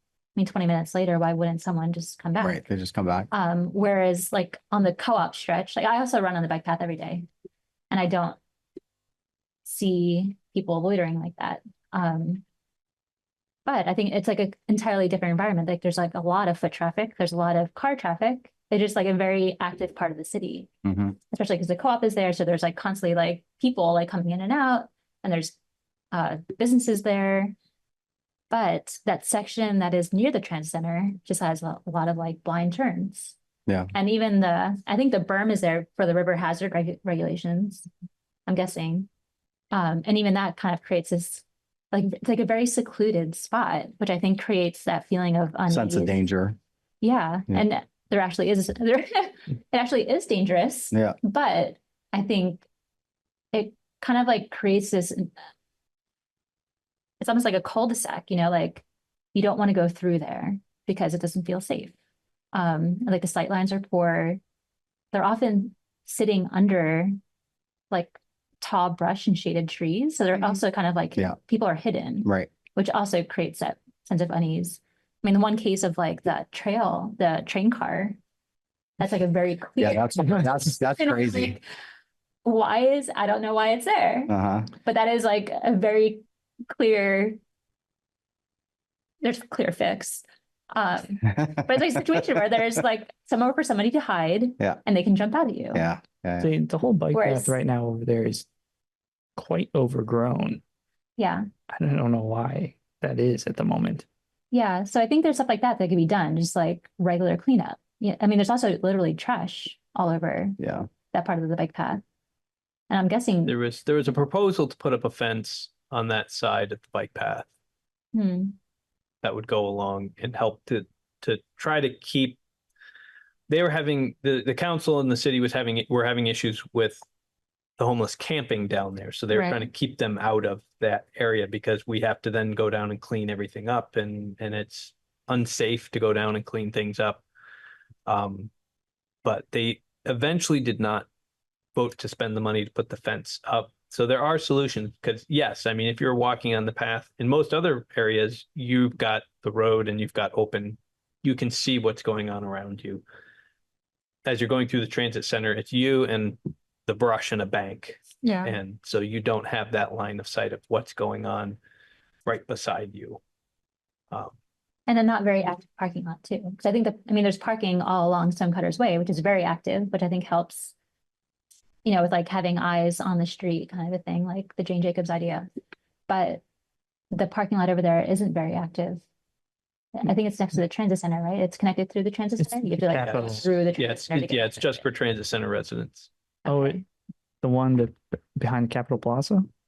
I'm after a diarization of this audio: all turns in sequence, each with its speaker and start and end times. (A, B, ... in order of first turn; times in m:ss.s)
0:00.4-0:02.6 A
0:02.4-0:03.3 B
0:03.3-0:07.2 A
0:07.9-0:08.4 A
0:09.6-0:12.4 A
0:13.6-0:20.7 A
0:20.8-0:21.2 B
0:21.3-0:25.6 A
0:26.1-0:27.6 A
0:28.5-0:33.3 A
0:33.9-0:37.9 A
0:38.5-0:39.1 A
0:39.7-0:46.2 A
0:45.7-0:46.6 B
0:47.0-0:52.6 A
0:53.5-0:55.3 A
0:57.2-1:01.9 A
1:02.5-1:04.4 A
1:05.1-1:07.1 A
1:07.9-1:18.2 A
1:12.2-1:12.5 B
1:19.0-1:21.6 A
1:19.8-1:21.6 B
1:22.4-1:27.4 A
1:24.3-1:24.7 B
1:29.2-1:35.8 A
1:31.3-1:31.6 B
1:35.7-1:36.5 B
1:36.4-1:38.4 C
1:37.1-1:37.6 A
1:39.4-1:40.6 C
1:41.2-1:41.4 A
1:41.7-1:44.0 C
1:44.5-1:50.6 A
1:50.6-1:50.9 B
1:51.1-1:52.0 A
1:52.9-1:53.5 A
1:53.4-1:57.5 D
1:58.1-1:58.5 A
1:59.2-2:02.4 D
2:03.5-2:07.0 D
2:07.8-2:17.2 D
2:09.3-2:09.6 A
2:18.0-2:18.5 D
2:19.2-2:21.1 D
2:21.7-2:33.0 D
2:34.2-2:41.6 D
2:38.2-2:38.5 A
2:42.2-2:43.2 D
2:44.9-2:50.7 A
2:51.8-2:55.4 A
2:56.1-2:56.4 A
2:57.1-2:59.0 A
2:59.9-3:04.8 A
3:02.4-3:03.5 C
3:02.9-3:06.1 D
3:06.4-3:06.8 C
3:06.4-3:06.8 A
3:07.4-3:09.5 C